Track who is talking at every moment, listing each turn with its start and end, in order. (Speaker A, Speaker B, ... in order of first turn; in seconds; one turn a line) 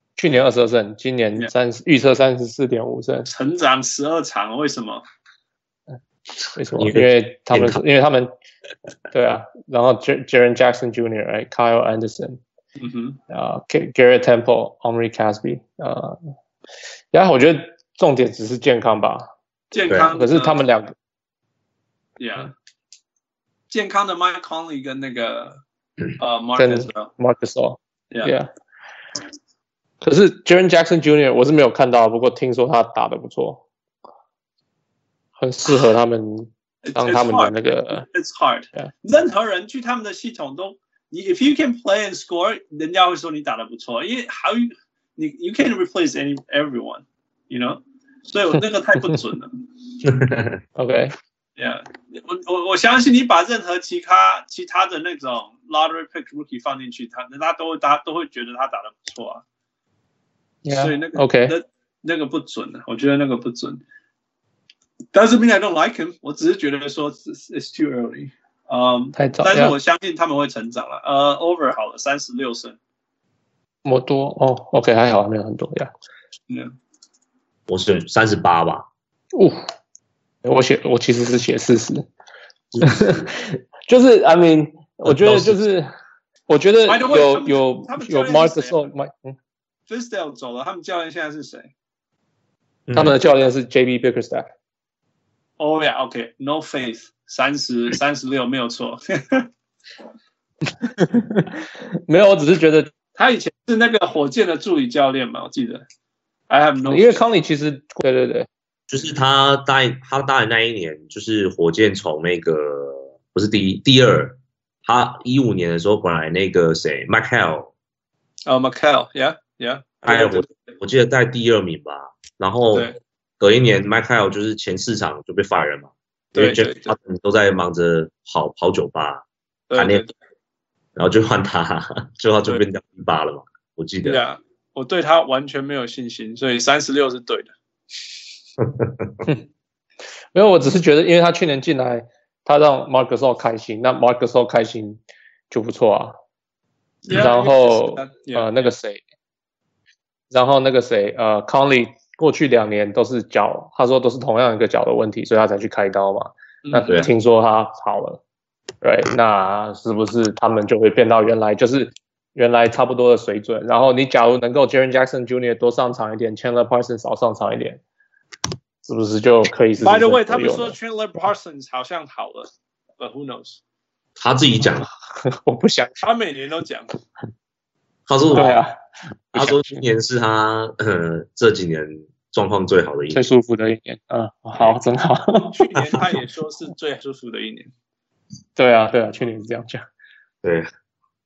Speaker A: 0.2-3.3
Speaker B: 3.3-5.0
Speaker A: 6.5-8.3
Speaker C: 6.8-7.8
Speaker A: 9.1-12.4
Speaker B: 12.8-13.2
Speaker A: 13.3-16.2
Speaker A: 17.1-19.3
Speaker B: 19.7-20.6
Speaker A: 20.1-20.9
Speaker B: 22.2-22.5
Speaker B: 23.7-25.6
Speaker B: 26.2-27.1
Speaker A: 26.6-28.5
Speaker A: 30.0-33.6
Speaker A: 35.4-38.0
Speaker B: 36.8-49.5
Speaker C: 50.0-50.6
Speaker A: 50.8-51.1
Speaker B: 51.6-59.4
Speaker A: 60.6-61.5
Speaker B: 60.7-63.8
Speaker B: 65.1-72.8
Speaker A: 69.2-69.8
Speaker A: 73.8-75.9
Speaker C: 77.7-78.8
Speaker A: 79.3-79.6
Speaker A: 80.4-82.0
Speaker C: 82.7-83.3
Speaker A: 82.8-85.9
Speaker C: 85.0-85.6
Speaker A: 86.5-89.4
Speaker B: 86.8-88.8
Speaker B: 89.9-91.7
Speaker C: 92.9-93.1
Speaker A: 92.9-94.5
Speaker B: 95.6-99.5
Speaker A: 100.8-102.9
Speaker B: 103.1-105.8
Speaker B: 106.5-107.2
Speaker A: 106.9-108.5
Speaker C: 108.9-117.7
Speaker B: 118.5-120.5
Speaker C: 120.0-129.2
Speaker B: 126.3-126.9
Speaker B: 129.7-130.1
Speaker C: 129.8-130.0
Speaker C: 130.9-134.2
Speaker B: 134.0-137.5
Speaker C: 138.6-139.1
Speaker A: 140.3-146.2
Speaker B: 147.0-148.5
Speaker A: 147.1-149.0
Speaker A: 150.3-158.2
Speaker B: 156.6-157.1
Speaker A: 158.8-167.8
Speaker A: 168.8-170.8
Speaker B: 169.8-173.6
Speaker C: 174.2-174.9
Speaker A: 175.2-175.9
Speaker B: 176.0-176.9
Speaker C: 178.1-178.6
Speaker A: 178.3-178.8
Speaker A: 179.3-179.8
Speaker C: 179.3-183.3
Speaker A: 183.1-185.6
Speaker B: 185.5-187.7
Speaker A: 188.6-189.8
Speaker C: 190.4-190.7